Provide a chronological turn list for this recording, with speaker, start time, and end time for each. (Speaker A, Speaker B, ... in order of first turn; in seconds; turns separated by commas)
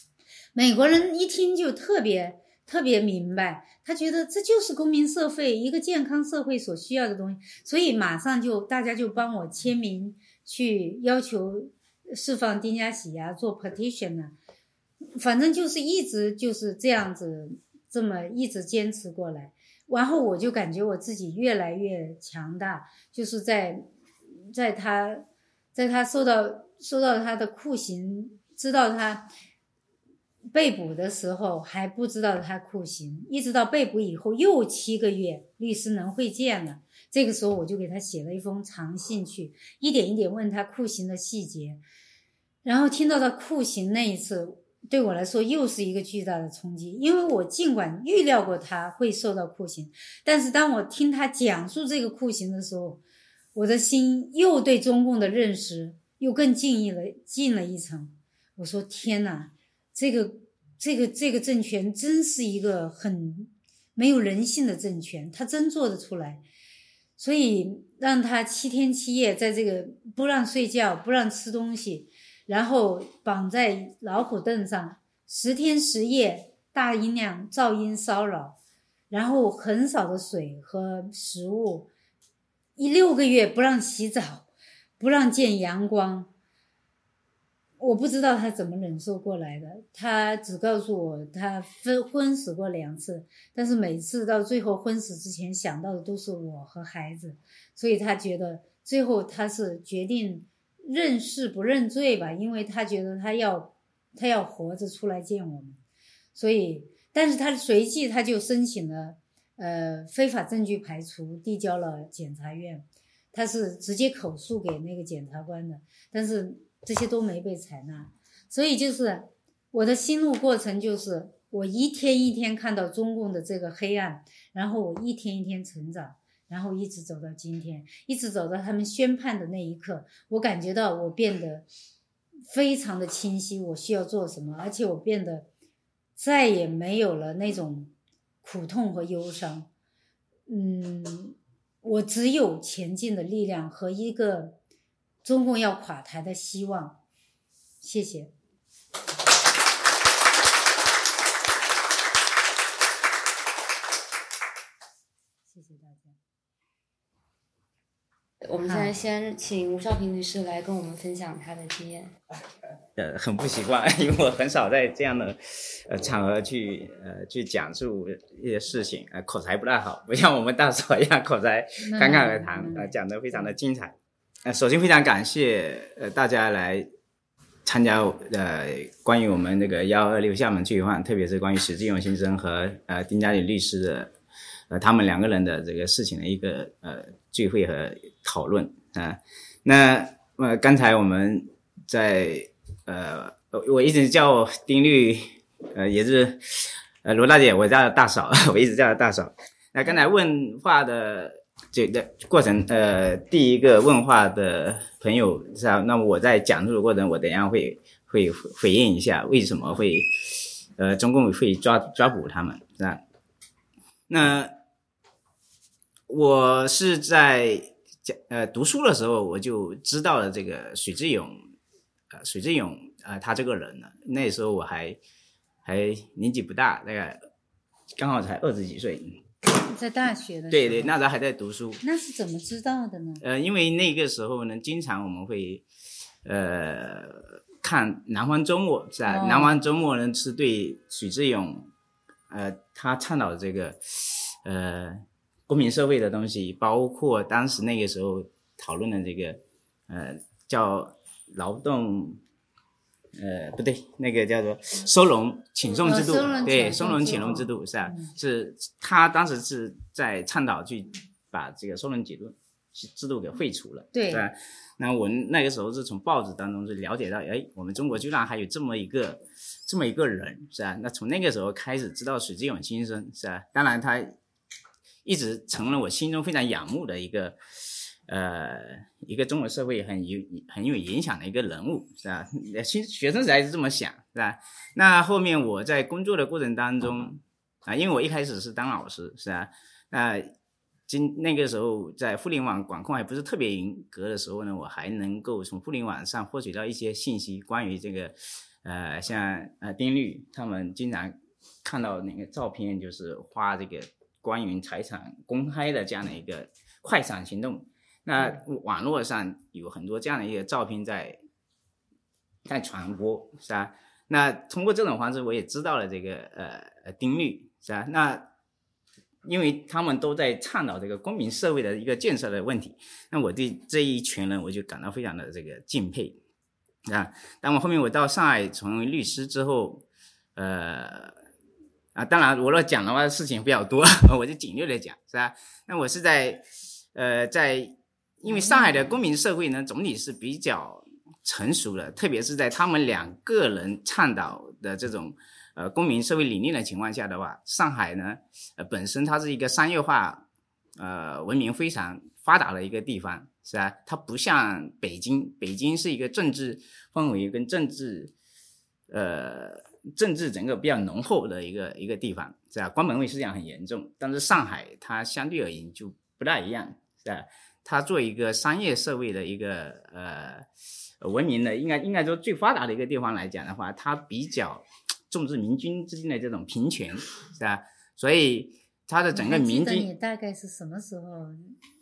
Speaker A: 0.5-14.3, Speaker A: 15.2-23.9, Speaker A: 24.5-29.3, Speaker A: 30.5-41.8, Speaker A: 42.6-53.0, Speaker A: 53.5-66.4, Speaker A: 67.2-78.5, Speaker A: 79.1-81.9, Speaker A: 82.8-84.5, Speaker A: 85.0-86.3, Speaker A: 87.8-105.8, Speaker A: 106.3-131.7, Speaker A: 132.5-135.4, Speaker A: 136.2-137.9, Speaker A: 138.4-139.7, Speaker A: 140.5-144.6, Speaker A: 145.2-147.0, Speaker A: 147.8-148.3, Speaker A: 155.5-156.2, Speaker B: 158.4-162.2, Speaker A: 158.6-158.9, Speaker C: 163.0-176.8, Speaker A: 171.8-173.6, Speaker C: 177.6-184.1, Speaker C: 184.7-210.1, Speaker C: 210.8-213.0, Speaker C: 214.1-214.5, Speaker C: 216.1-221.4, Speaker C: 222.1-225.0, Speaker C: 225.6-227.2, Speaker C: 228.0-229.2, Speaker A: 229.7-230.9, Speaker C: 230.5-231.8, Speaker A: 231.8-233.2, Speaker C: 233.2-235.6, Speaker C: 236.2-241.7, Speaker A: 239.1-239.6, Speaker C: 242.3-252.2, Speaker C: 253.1-274.1, Speaker A: 255.8-258.1, Speaker A: 263.9-264.3, Speaker C: 275.0-277.4, Speaker C: 278.1-290.3, Speaker C: 290.9-311.2, Speaker C: 312.4-318.2, Speaker C: 319.2-326.2, Speaker C: 326.9-329.8, Speaker C: 330.4-331.1, Speaker C: 331.9-350.2, Speaker A: 338.2-339.0, Speaker C: 350.8-358.1, Speaker C: 358.9-370.4, Speaker C: 371.0-379.9, Speaker A: 379.1-381.6